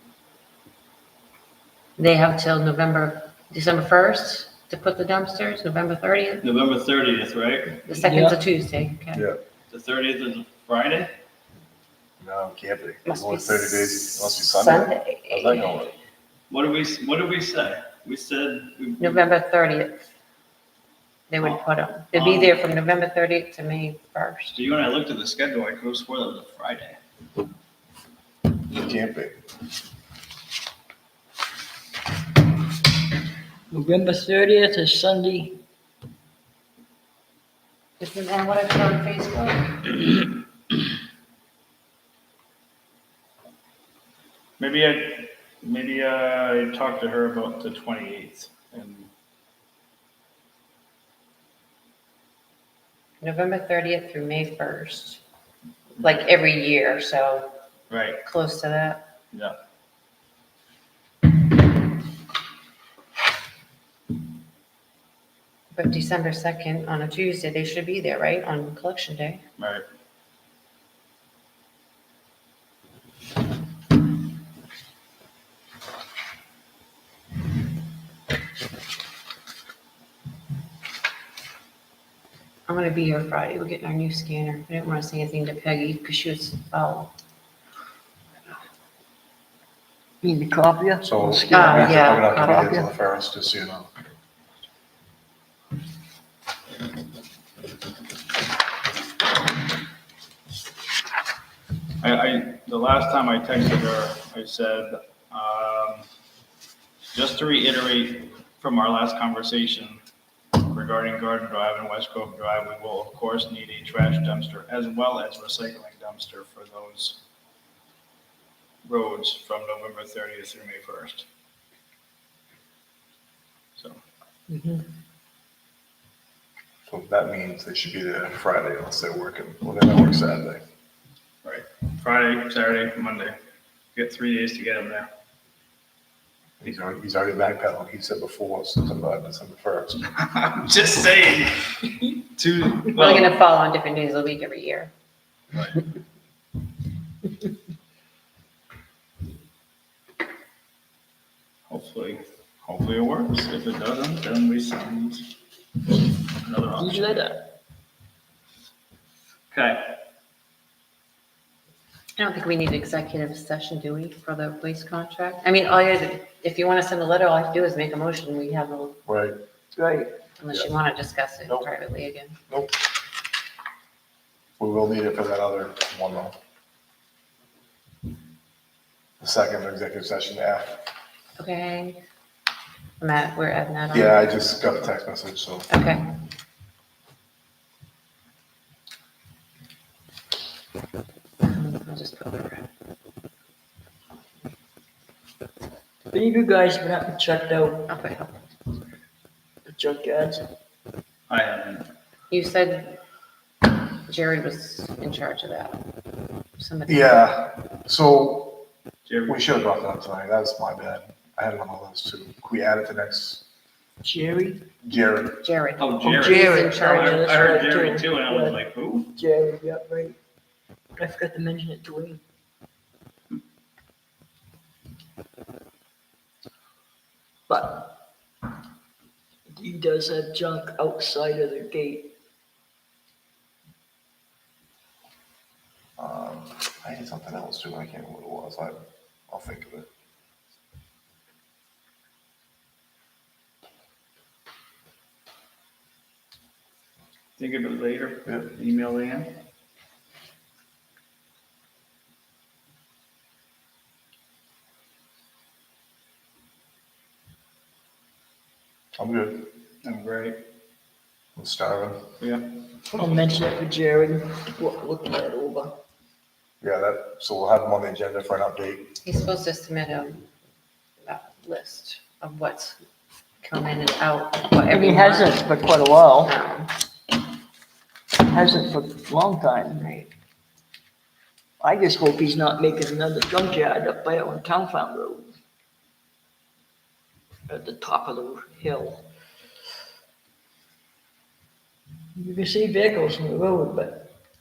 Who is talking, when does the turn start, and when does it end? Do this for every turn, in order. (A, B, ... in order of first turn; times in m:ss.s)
0:02.0-0:06.5 A
0:06.4-0:07.8 B
0:07.9-0:09.2 A
0:07.9-0:08.4 C
0:09.1-0:09.4 D
0:09.7-0:11.1 B
0:12.2-0:15.9 D
0:13.0-0:15.7 A
0:16.5-0:19.2 B
0:19.0-0:19.9 A
0:21.3-0:24.6 A
0:22.1-0:22.6 B
0:24.5-0:27.0 B
0:28.7-0:29.3 D
0:33.7-0:35.6 C
0:38.0-0:40.0 A
0:44.6-0:49.1 B
0:53.2-0:55.2 A
0:56.0-0:57.5 A
0:57.9-0:58.2 B
0:58.2-0:59.0 A
1:05.7-1:09.4 A
1:09.6-1:09.8 B
1:22.7-1:27.1 A
1:30.2-1:32.9 C
1:31.0-1:33.9 D
1:31.5-1:32.7 A
1:42.0-1:46.0 B
1:47.1-1:50.0 B
1:50.6-1:57.2 B
1:58.8-2:01.2 B
2:04.5-2:04.8 C
2:06.9-2:10.6 D
2:11.4-2:13.4 B
2:13.9-2:15.1 B
2:16.6-2:20.0 D
2:20.1-2:23.3 B
2:22.9-2:24.9 A
2:25.5-2:25.8 B
2:31.7-2:35.3 B
2:36.4-2:37.2 B
2:36.8-2:37.5 C
2:39.5-2:40.0 B
2:42.2-2:49.0 A
2:49.0-2:49.4 D
2:49.8-2:50.1 C
2:50.4-2:52.4 A
2:52.5-2:52.7 D
2:54.6-2:56.4 D
2:59.2-3:00.8 D
3:01.4-3:02.0 A
3:03.0-3:04.3 A
3:03.9-3:05.7 D
3:05.7-3:06.0 A
3:11.4-3:12.7 A
3:16.1-3:17.9 C
3:17.9-3:18.5 A
3:19.6-3:20.4 C
3:21.3-3:21.9 B
3:22.3-3:23.0 A
3:24.0-3:25.8 A
3:26.6-3:27.3 A
3:26.9-3:28.6 D
3:29.0-3:29.4 B
3:29.3-3:33.4 D
3:34.0-3:34.6 C
3:34.8-3:35.4 D
3:35.4-3:37.4 A
3:35.8-3:39.1 B
3:36.0-3:38.6 C
3:39.1-3:40.2 C
3:41.0-3:42.2 C
3:47.5-3:48.0 C
3:49.5-3:52.1 C
3:56.0-3:59.9 D
4:07.4-4:09.3 B
4:19.0-4:19.5 D
4:19.8-4:20.4 B
4:21.4-4:22.1 D
4:22.2-4:22.5 B
4:22.9-4:25.8 C
4:26.6-4:28.9 D
4:29.0-4:30.3 A
4:31.0-4:32.8 A
4:33.4-4:35.5 A
4:34.7-4:36.3 C
4:36.2-4:36.7 A
4:38.2-4:39.8 C
4:39.7-4:40.1 A
4:41.6-4:45.3 C
4:47.5-4:49.1 C
4:52.2-4:54.2 C